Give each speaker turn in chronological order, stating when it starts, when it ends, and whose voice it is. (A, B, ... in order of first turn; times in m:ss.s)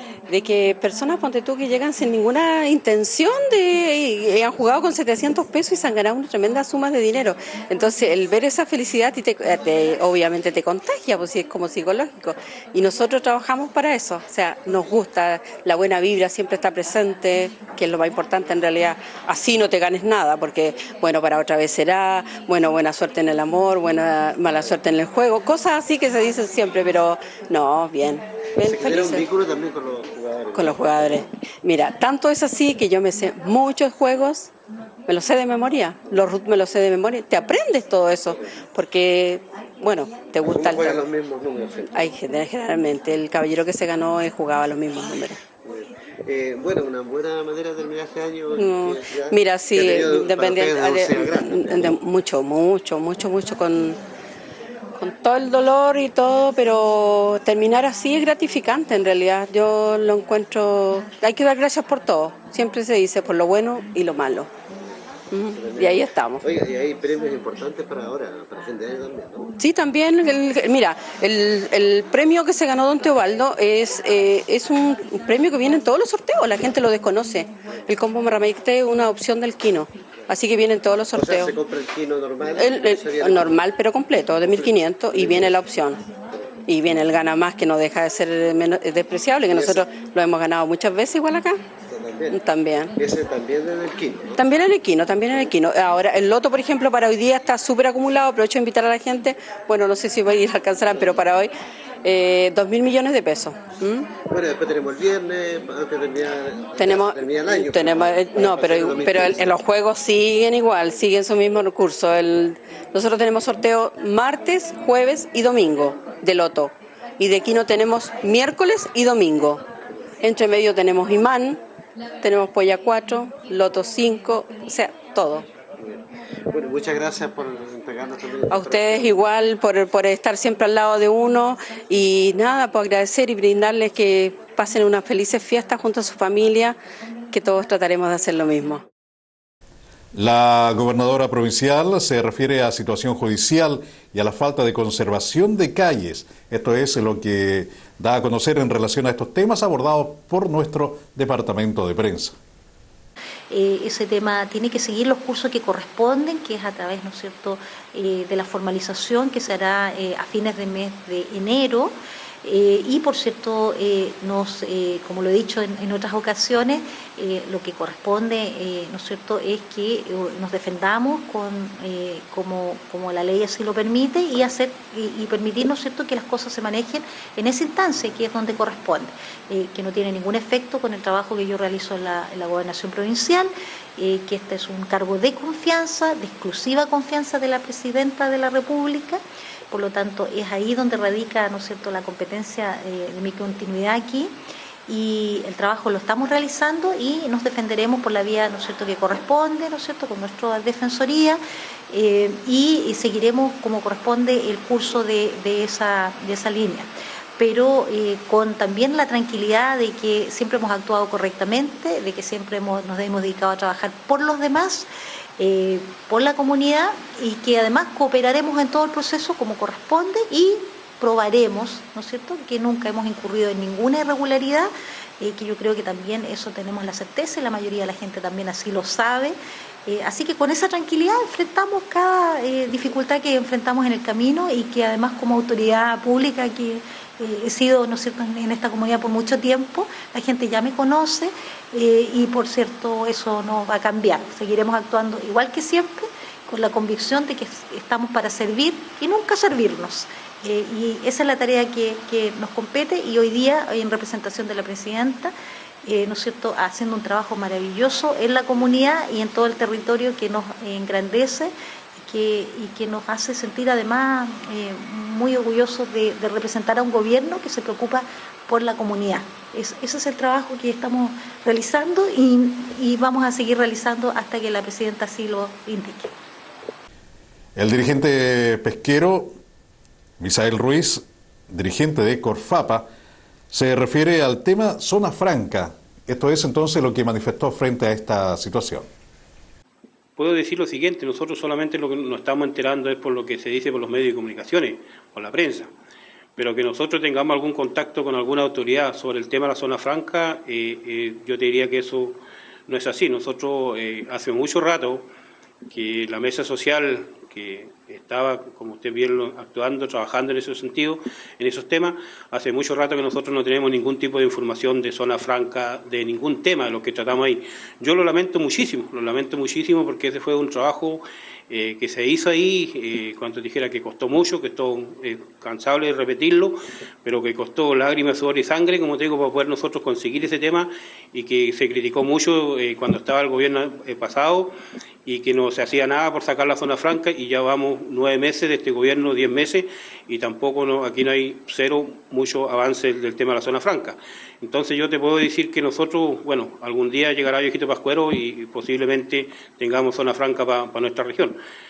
0:00.3-0:29.2 A
0:28.6-0:31.2 B
0:30.5-0:34.5 A
0:35.1-0:41.0 A
0:40.4-0:42.1 B
0:41.9-0:45.4 A
0:45.6-0:51.9 B
0:48.6-0:54.0 A
0:55.0-1:04.5 A
1:05.3-1:06.4 A
1:05.5-1:09.5 B
1:09.6-1:21.6 A
1:21.1-1:23.6 B
1:22.6-1:26.0 A
1:24.4-1:25.6 B
1:26.6-1:31.6 A
1:29.5-1:30.0 B
1:31.9-1:32.4 B
1:32.3-1:32.9 A
1:33.0-1:34.4 B
1:34.4-1:41.5 A
1:42.0-1:44.1 A
1:44.3-1:49.6 B
1:46.8-1:59.6 A
2:00.2-2:01.6 A
2:02.2-2:05.4 A
2:05.8-2:09.2 B
2:08.5-2:16.8 A
2:17.3-2:18.8 A
2:20.1-2:32.4 C
2:33.5-3:14.3 D
3:14.9-4:36.1 D
4:37.6-4:39.4 C
4:40.2-4:42.9 C
4:43.5-4:48.9 C
4:50.2-4:55.7 E
4:56.4-5:05.1 E
5:05.7-5:34.5 E
5:35.0-5:51.4 E